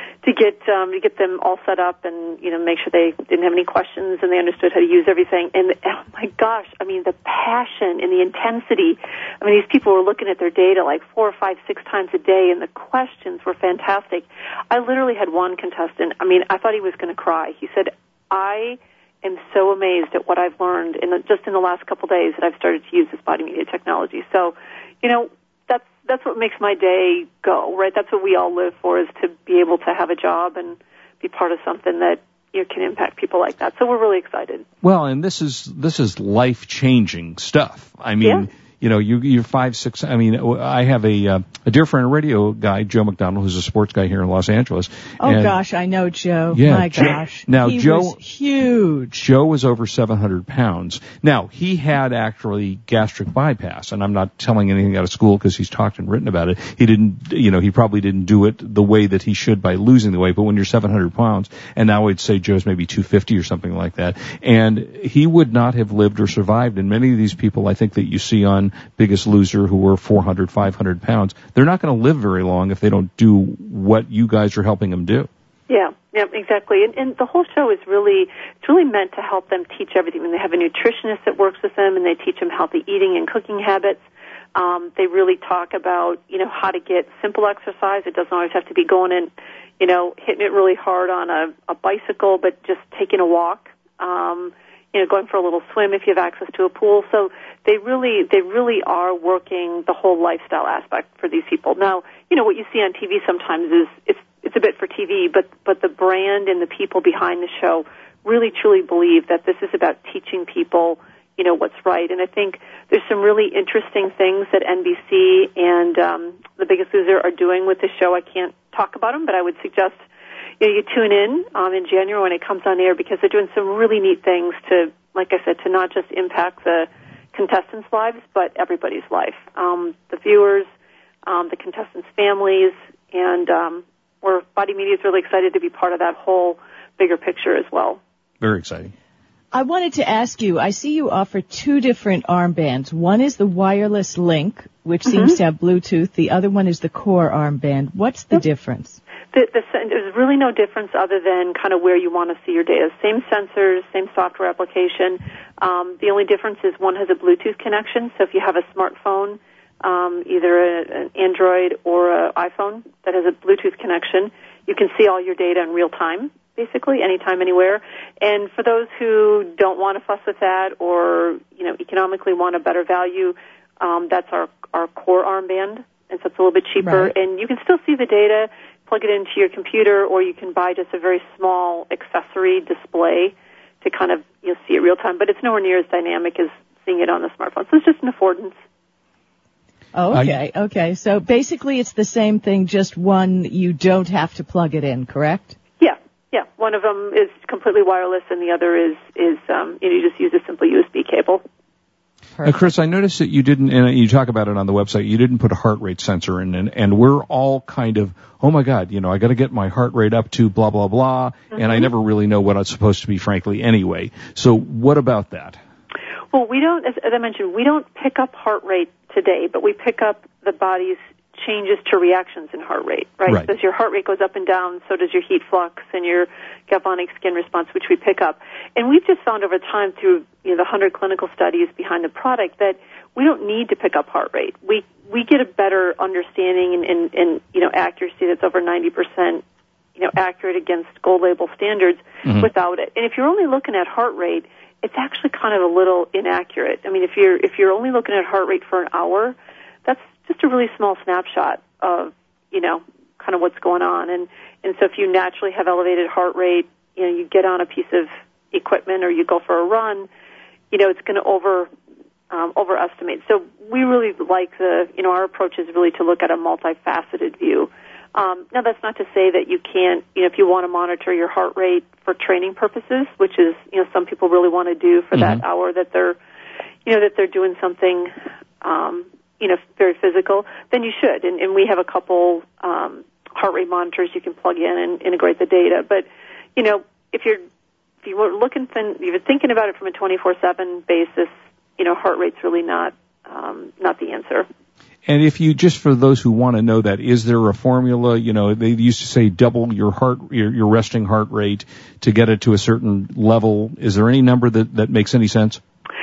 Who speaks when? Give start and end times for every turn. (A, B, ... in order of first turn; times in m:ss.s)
0:00.2-0:34.6 A
0:34.8-0:45.6 B
0:45.2-0:49.3 C
0:46.5-0:48.2 B
0:49.2-1:15.3 B
1:15.7-1:24.0 A
1:24.6-2:00.0 A
2:00.6-2:10.7 A
2:11.3-2:18.0 A
2:18.4-2:18.9 B
2:19.5-2:29.0 C
2:25.1-2:25.4 A
2:29.3-3:08.6 A
2:56.8-2:57.1 C
3:09.9-3:15.6 C
3:10.1-3:10.4 B
3:15.8-3:21.4 A
3:22.4-3:35.6 B
3:31.5-3:31.9 A
3:36.3-3:59.4 A
4:00.0-4:20.1 A
4:02.2-4:02.5 B
4:20.7-4:21.7 A
4:22.3-4:36.2 A
4:35.1-4:35.4 B
4:36.9-4:47.4 A
4:48.0-4:54.5 A
4:55.1-5:05.6 B